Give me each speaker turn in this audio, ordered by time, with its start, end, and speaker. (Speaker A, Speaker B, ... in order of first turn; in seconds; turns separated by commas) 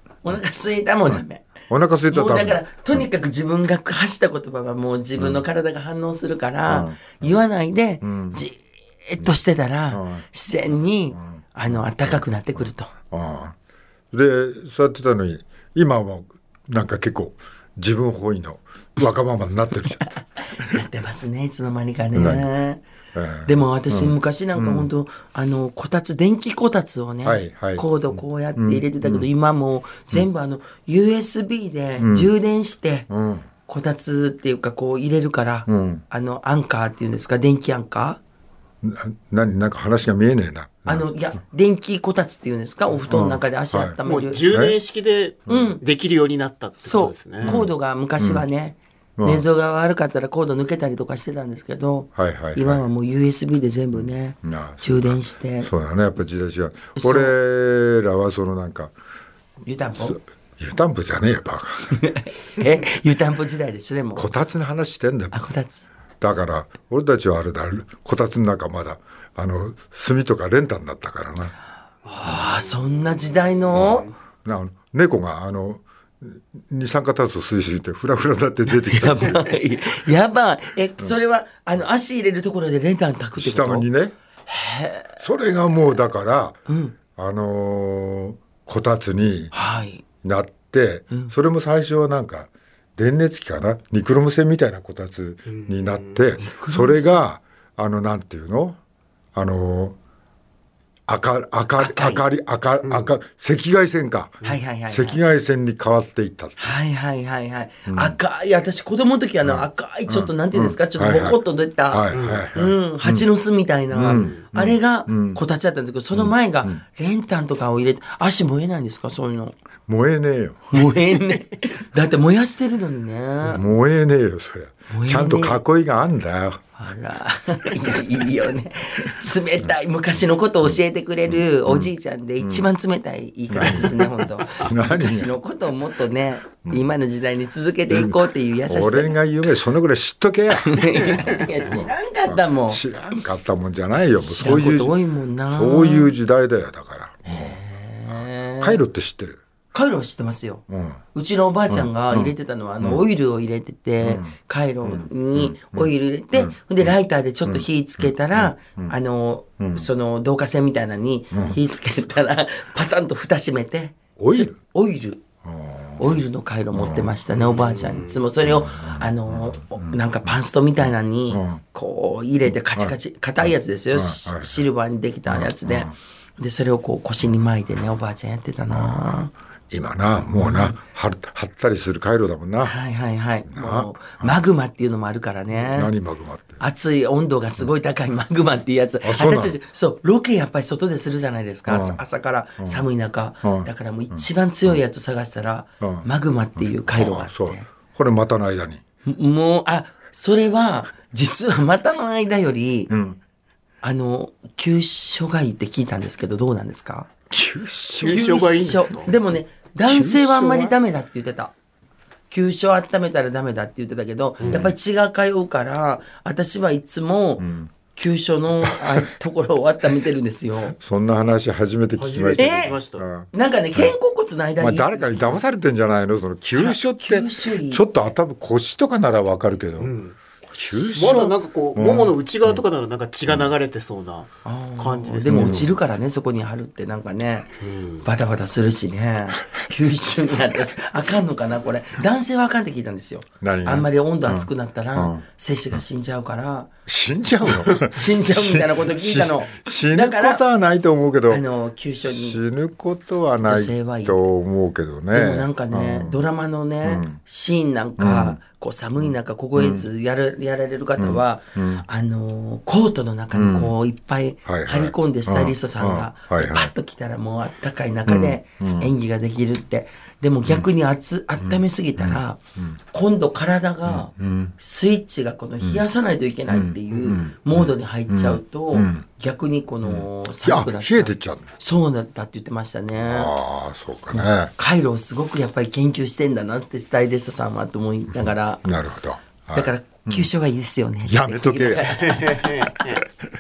Speaker A: 0.2-1.4, Speaker B: 1.1-3.1, Speaker A: 2.1-12.9, Speaker B: 5.2-5.4, Speaker B: 6.7-7.4, Speaker B: 8.0-8.4, Speaker B: 9.9-10.2, Speaker B: 11.1-13.6, Speaker B: 14.1-20.8, Speaker A: 20.1-22.8, Speaker B: 22.1-22.5, Speaker B: 23.1-24.9, Speaker A: 23.4-33.1, Speaker B: 27.2-29.3, Speaker B: 32.0-32.3, Speaker B: 33.1-33.5, Speaker A: 33.7-38.2, Speaker B: 35.7-36.0, Speaker B: 38.8-41.1, Speaker A: 40.9-44.4, Speaker B: 43.1-44.8, Speaker C: 44.0-47.6, Speaker B: 45.5-45.8, Speaker A: 45.5-45.8, Speaker A: 46.8-55.7, Speaker B: 47.4-48.5, Speaker B: 49.2-49.5, Speaker B: 52.1-52.9, Speaker B: 53.9-58.9, Speaker A: 57.0-57.4, Speaker A: 59.6-60.2, Speaker B: 59.9-62.0, Speaker A: 61.9-64.3, Speaker B: 64.1-65.4, Speaker A: 65.3-65.8, Speaker B: 66.2-71.5, Speaker C: 72.1-72.4, Speaker A: 72.1-74.1, Speaker B: 74.5-79.5, Speaker A: 78.7-83.9, Speaker B: 83.4-84.2, Speaker A: 84.5-85.2, Speaker B: 85.2-86.6, Speaker A: 86.7-87.0, Speaker B: 87.2-89.5, Speaker A: 89.5-90.0, Speaker B: 90.2-98.8, Speaker C: 95.5-96.2, Speaker A: 96.4-97.2, Speaker B: 99.3-100.0, Speaker B: 101.1-106.7, Speaker A: 101.8-102.2, Speaker C: 102.8-103.1, Speaker A: 104.4-105.2, Speaker A: 106.6-119.6, Speaker B: 107.9-108.2, Speaker B: 109.4-113.3, Speaker C: 112.1-112.5, Speaker B: 113.9-115.4, Speaker C: 114.1-114.5, Speaker B: 116.1-116.8, Speaker B: 119.9-120.9, Speaker A: 120.7-123.7, Speaker B: 123.4-126.6, Speaker A: 124.9-125.6, Speaker A: 126.8-139.2, Speaker B: 130.7-132.7, Speaker B: 133.5-135.3, Speaker B: 137.9-149.4, Speaker A: 140.6-142.8, Speaker A: 144.2-146.2, Speaker A: 147.2-148.8, Speaker A: 149.7-165.2, Speaker B: 150.7-151.0, Speaker B: 151.7-153.0, Speaker B: 154.0-158.9, Speaker B: 159.6-159.9, Speaker B: 161.3-161.6, Speaker B: 164.2-164.6, Speaker B: 165.4-166.2, Speaker A: 166.0-179.3, Speaker B: 166.7-167.2, Speaker C: 167.3-168.2, Speaker B: 168.4-171.6, Speaker B: 172.5-174.7, Speaker B: 175.3-175.9, Speaker B: 178.7-182.8, Speaker A: 180.3-180.8, Speaker A: 182.6-185.9, Speaker B: 183.5-184.4, Speaker B: 185.5-186.6, Speaker A: 186.6-197.7, Speaker B: 189.0-189.6, Speaker B: 191.7-192.0, Speaker B: 192.6-192.9, Speaker B: 193.4-194.8, Speaker B: 195.8-198.8, Speaker A: 199.0-202.9, Speaker B: 202.9-203.2, Speaker A: 203.8-207.1, Speaker B: 207.3-209.2, Speaker C: 207.9-209.1, Speaker A: 208.0-211.5, Speaker B: 209.8-210.8, Speaker A: 212.3-220.8, Speaker C: 214.4-214.7, Speaker B: 214.4-214.7, Speaker B: 217.4-217.7, Speaker B: 220.7-223.9, Speaker C: 222.0-223.1, Speaker A: 222.4-222.8, Speaker A: 223.3-225.4, Speaker B: 224.6-229.9, Speaker A: 226.5-227.8, Speaker C: 229.8-230.2, Speaker B: 230.5-232.6, Speaker C: 230.9-235.6, Speaker A: 234.4-237.5, Speaker B: 235.3-235.8, Speaker C: 237.6-238.1, Speaker A: 238.0-246.7, Speaker B: 243.4-245.8, Speaker B: 246.9-251.4, Speaker A: 247.8-250.4, Speaker A: 251.3-252.4, Speaker B: 252.0-256.3, Speaker A: 253.4-254.2, Speaker A: 255.1-283.3, Speaker B: 256.8-257.2, Speaker B: 258.0-258.4, Speaker B: 259.0-259.9, Speaker B: 261.0-261.9, Speaker B: 263.3-263.7, Speaker B: 264.5-266.7, Speaker B: 268.1-268.9, Speaker B: 271.4-272.8, Speaker B: 273.9-274.6, Speaker B: 275.6-275.9, Speaker B: 276.5-279.1, Speaker B: 279.8-281.5, Speaker B: 283.0-284.5, Speaker A: 284.1-288.7, Speaker B: 288.2-290.3, Speaker A: 289.5-292.3, Speaker B: 291.1-292.2, Speaker C: 292.0-293.0